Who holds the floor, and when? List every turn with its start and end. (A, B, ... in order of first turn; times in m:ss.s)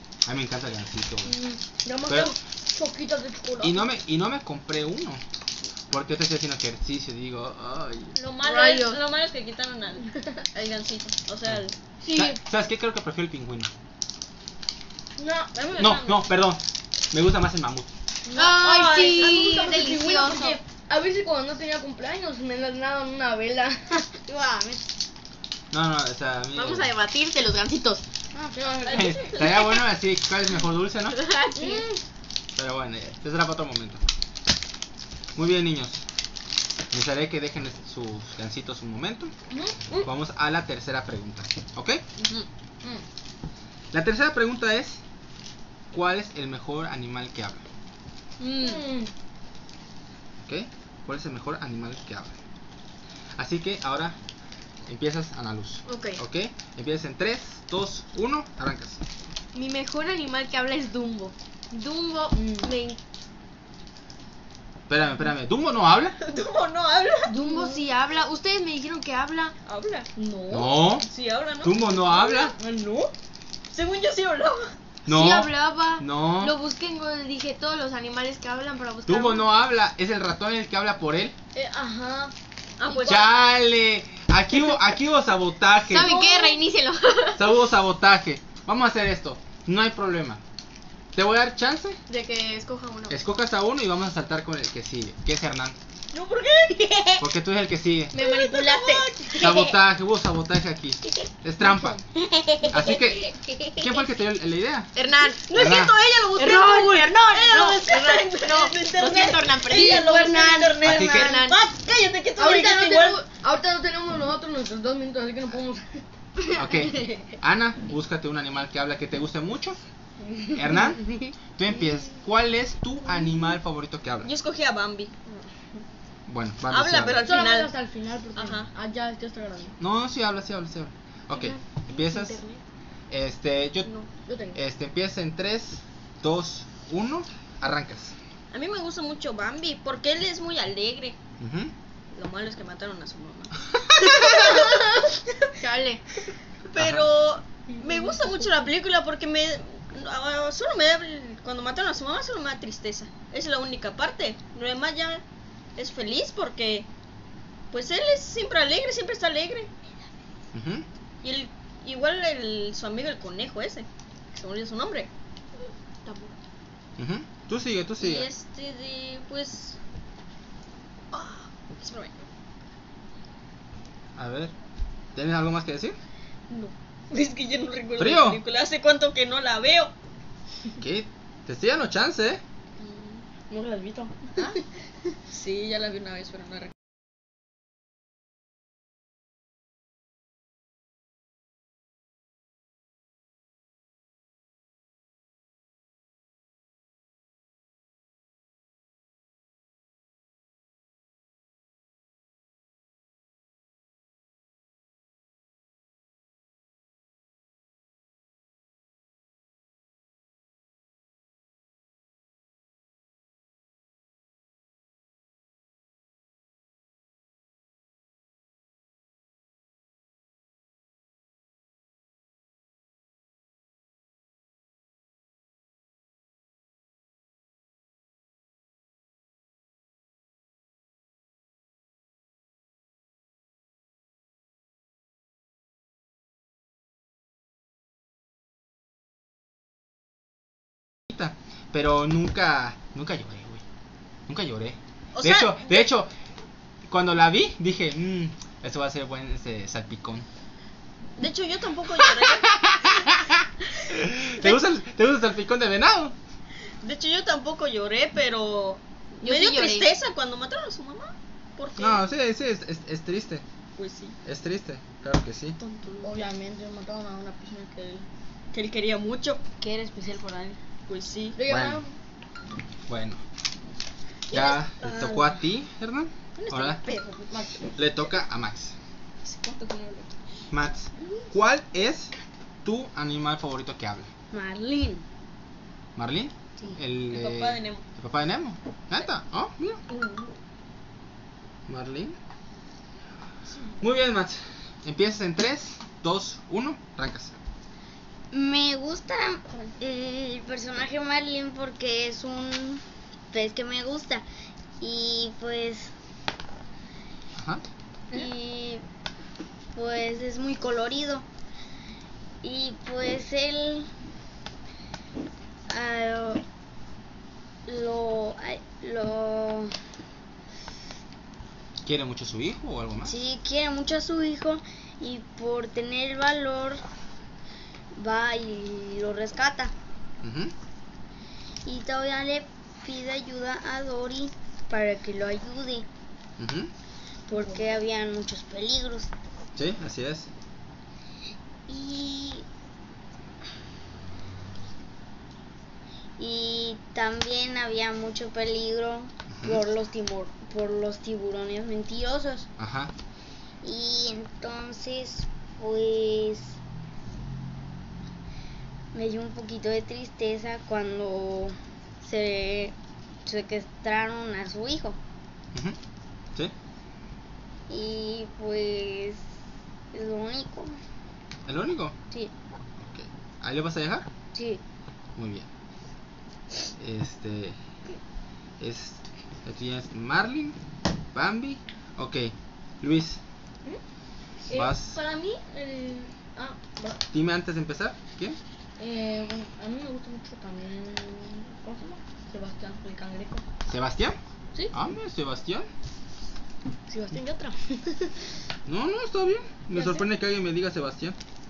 0:00.2-0:01.4 A
0:01.2-0:03.8 B
0:02.1-0:02.3 A
0:03.6-0:05.2 A
0:05.9-0:08.1 A
0:08.2-0:11.7 C
0:08.3-0:09.0 D
0:12.0-0:12.4 B
0:12.1-0:13.7 A
0:15.2-0:15.6 B
0:15.5-0:16.3 C
0:15.8-0:17.9 A
0:18.3-0:24.1 B
0:18.4-0:20.6 D
0:18.6-0:19.3 C
0:24.2-0:24.8 E
0:25.7-0:26.9 A
0:26.5-0:28.0 D
0:28.3-0:29.2 B
0:28.8-0:29.6 C
0:28.9-0:31.2 A
0:31.1-0:31.8 D
0:31.5-0:32.0 B
0:32.6-0:34.0 A
0:35.3-0:36.0 A
0:36.9-0:39.3 A
0:39.5-0:40.1 B
0:40.0-0:42.0 A
0:42.2-0:42.4 C
0:43.9-0:45.0 A
0:45.9-0:47.6 A
0:48.4-0:48.8 D
0:48.6-0:49.1 B
0:50.4-0:52.3 A
0:53.4-0:54.2 A
0:54.8-0:59.0 A
0:55.8-0:56.2 D
0:59.5-1:03.0 D
1:02.3-1:02.7 B
1:04.9-1:06.2 A
1:06.2-1:07.3 C
1:07.3-1:09.5 D
1:07.3-1:07.8 B
1:09.6-1:10.1 C
1:10.2-1:10.8 B
1:10.5-1:11.1 A
1:11.0-1:11.8 C
1:11.6-1:12.5 A
1:12.2-1:13.1 B
1:13.7-1:14.7 C
1:15.1-1:16.5 A
1:15.1-1:19.4 D
1:19.1-1:21.3 A
1:21.5-1:22.3 B
1:22.8-1:23.2 C
1:22.9-1:23.2 B
1:23.0-1:26.2 A
1:25.9-1:27.4 D
1:25.9-1:26.6 B
1:27.4-1:30.4 A
1:31.1-1:32.0 A
1:32.1-1:33.2 D
1:33.1-1:35.8 A
1:36.1-1:37.2 C
1:37.2-1:38.1 A
1:38.1-1:39.7 D
1:38.2-1:39.7 C
1:39.4-1:42.0 A
1:42.2-1:43.8 E
1:42.7-1:44.9 A
1:44.9-1:50.2 D
1:45.5-1:53.2 C
1:45.5-1:45.9 A
1:49.7-1:51.3 E
1:50.8-1:51.4 A
1:51.0-1:51.6 D
1:52.4-1:56.0 B
1:56.5-1:59.8 A
2:00.5-2:04.3 A
2:04.2-2:05.2 C
2:06.3-2:07.2 A
2:06.7-2:07.7 C
2:07.2-2:09.8 B
2:08.4-2:08.7 C
2:09.8-2:12.4 A
2:11.3-2:12.6 D
2:13.1-2:13.9 A
2:14.2-2:14.6 B
2:14.5-2:18.1 A
2:18.5-2:21.2 C
2:21.4-2:21.7 A
2:22.1-2:25.3 C
2:24.0-2:24.3 A
2:25.6-2:26.0 D
2:26.7-2:35.2 C
2:26.8-2:27.0 A
2:27.7-2:28.4 B
2:35.8-2:36.9 C
2:37.7-2:39.7 C
2:40.5-2:40.8 A
2:41.2-2:45.1 C
2:46.0-2:46.3 D
2:47.0-2:48.3 A
2:48.0-2:49.8 C
2:51.1-2:52.2 C
2:54.2-2:54.5 A
2:55.1-2:56.0 A
2:56.5-2:59.9 C
2:58.0-2:58.4 A
3:00.8-3:02.4 A
3:02.8-3:03.1 C
3:03.5-3:04.4 B
3:05.3-3:06.7 C
4:01.1-4:03.6 A
4:04.3-4:06.1 A
4:05.1-4:05.8 C
4:06.9-4:10.2 A
4:11.2-4:12.6 C
4:12.0-4:16.1 A
4:16.8-4:22.0 C
4:19.2-4:19.9 D
4:21.8-4:23.4 A
4:23.8-4:24.2 C
4:24.2-4:25.6 A
4:25.6-4:26.2 C
4:26.0-4:28.0 B
4:28.5-4:29.4 C
4:29.6-4:30.6 E
4:30.9-4:31.4 C
4:31.4-4:31.9 B
4:31.4-4:31.8 A
4:32.9-4:33.2 A
4:34.3-4:36.8 A
4:34.3-4:35.0 C
4:36.4-4:37.5 C
4:37.3-4:37.7 B
4:37.8-4:38.7 A
4:39.2-4:40.1 C
4:40.5-4:42.1 A
4:42.6-4:44.1 A
4:44.3-4:45.0 E
4:46.0-4:49.8 A
4:47.1-4:47.8 C
4:49.9-4:50.2 C
4:51.7-4:52.2 A
4:53.8-4:57.3 A
4:58.3-5:04.2 E
5:04.8-5:05.9 E
5:07.4-5:07.6 A
5:08.1-5:08.8 E
5:09.7-5:11.2 E
5:12.4-5:13.9 E
5:15.7-5:16.4 E
5:17.6-5:19.7 E
5:21.8-5:23.2 A
5:23.0-5:26.8 E
5:27.9-5:29.7 E
5:30.2-5:30.5 A
5:31.6-5:35.9 E
5:36.4-5:36.7 A
5:37.3-5:39.1 E
5:37.3-5:37.8 B
5:39.6-5:40.3 A
5:41.7-5:42.4 E
5:46.2-5:52.5 E
5:49.3-5:49.6 A
5:52.6-5:52.9 A
5:53.6-5:56.6 E
5:58.9-6:02.7 E
6:03.2-6:05.0 E
6:07.7-6:09.2 E
6:09.9-6:10.8 E
6:11.4-6:12.0 A
6:12.8-6:14.1 A
6:14.3-6:14.6 E
6:15.2-6:15.5 A
6:16.8-6:17.6 A
6:18.6-6:20.6 A
6:21.1-6:23.2 A
6:24.4-6:27.0 B
6:24.5-6:25.0 A
6:27.1-6:28.4 A
6:28.8-6:33.4 B
6:33.7-6:34.2 A
6:34.7-6:35.7 A
6:36.9-6:38.1 B
6:38.7-6:41.2 A
6:39.7-6:40.0 B